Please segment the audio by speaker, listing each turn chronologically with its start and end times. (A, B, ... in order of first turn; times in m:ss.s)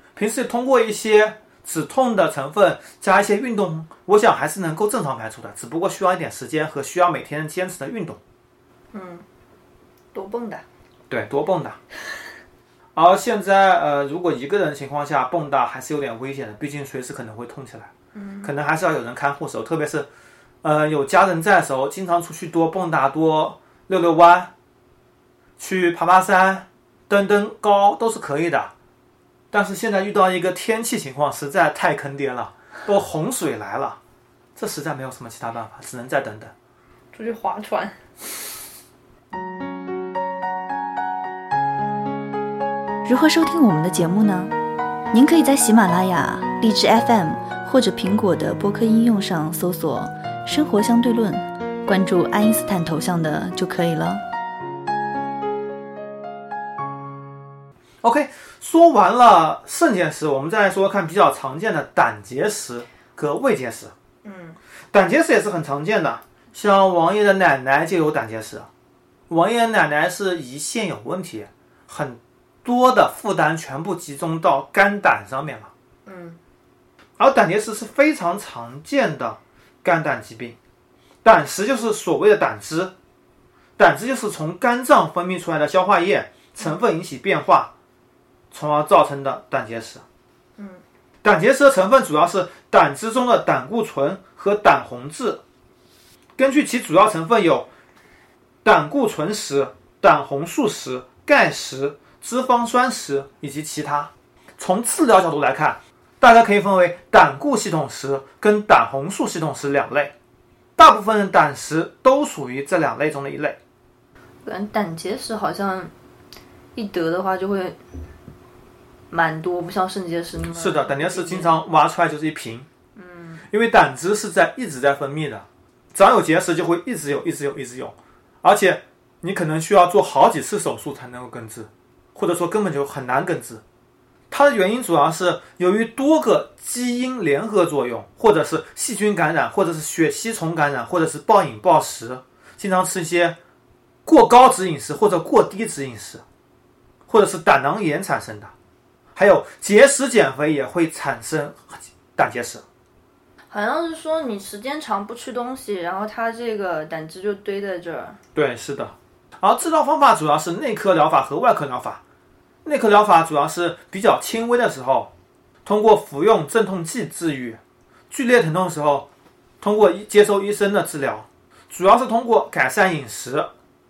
0:00.2-0:08.2 A
0:08.9-0:09.2 B
0:10.1-0:10.6 B
0:11.1-0:11.8 A
0:13.0-0:17.9 A
0:18.1-0:18.5 B
0:18.4-0:20.1 A
0:20.6-0:24.5 A
0:25.6-0:28.7 A
0:29.5-0:34.0 A
0:34.6-0:36.5 A
0:37.1-0:38.0 B
0:43.0-0:44.5 C
0:45.1-0:54.2 C
0:58.0-1:03.9 A
1:04.2-1:04.6 B
1:04.9-1:08.7 A
1:09.3-1:15.7 A
1:16.0-1:16.4 B
1:17.2-1:20.6 A
1:21.2-1:22.9 A
1:23.8-1:27.7 A
1:28.5-1:30.0 A
1:30.6-1:30.8 B
1:31.2-1:35.4 A
1:36.4-1:37.7 A
1:38.6-1:50.1 A
1:50.8-1:53.6 A
1:54.4-1:55.9 B
1:56.7-1:57.8 B
1:59.1-2:01.5 B
2:00.5-2:02.7 A
2:03.0-2:03.4 B
2:03.5-2:13.6 A
2:14.3-2:23.4 A
2:24.0-2:26.2 A
2:27.1-2:28.5 A
2:29.2-2:32.6 A
2:33.5-2:38.2 B
2:38.3-2:42.0 A
2:42.6-2:45.1 A
2:45.6-2:49.1 A
2:49.6-2:53.5 A